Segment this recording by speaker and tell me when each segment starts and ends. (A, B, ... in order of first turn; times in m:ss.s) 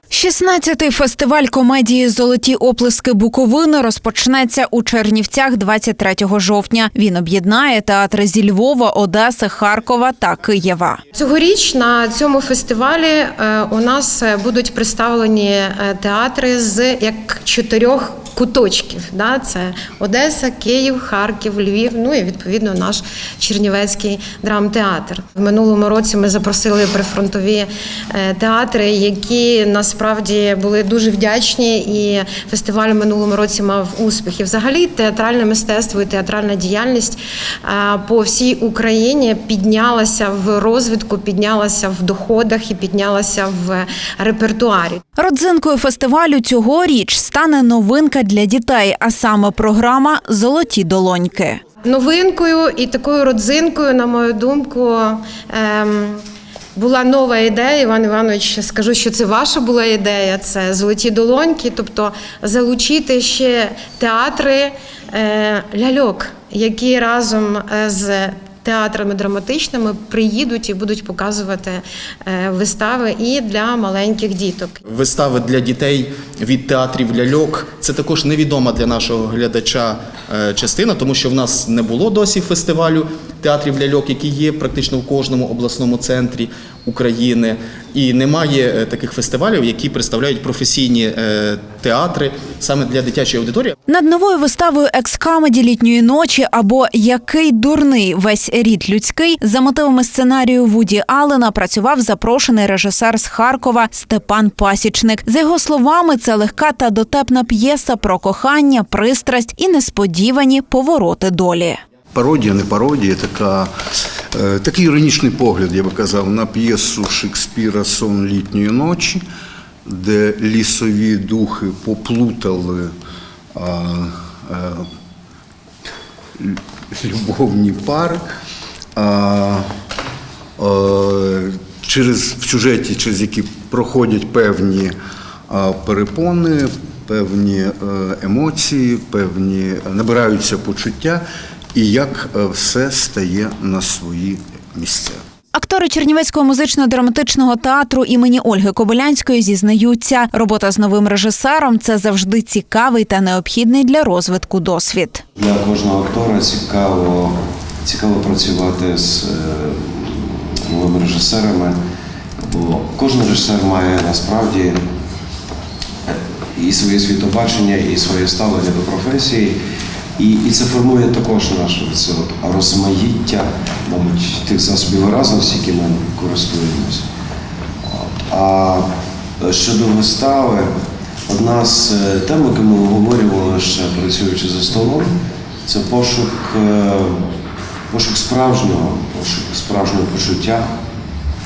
0:00.1-0:11.0 A
0:11.1-0:45.0 B
0:45.2-0:51.6 A
0:51.8-0:56.2 B
0:56.8-1:14.8 B
1:14.9-1:33.8 C
1:33.9-1:51.8 A
1:52.1-1:53.7 D
1:54.3-1:59.2 D
1:59.8-2:02.9 D
2:03.5-2:04.8 D
2:06.4-2:08.2 D
2:09.0-2:09.6 D
2:10.6-2:14.9 D
2:15.5-2:21.2 D
2:21.7-2:25.2 D
2:25.5-2:35.2 A
2:35.4-2:41.8 E
2:42.4-2:44.8 E
2:46.1-2:49.6 E
2:50.2-2:57.1 E
2:57.9-2:58.9 E
2:59.4-3:00.7 E
3:01.3-3:05.1 E
3:05.6-3:07.2 E
3:07.9-3:10.7 E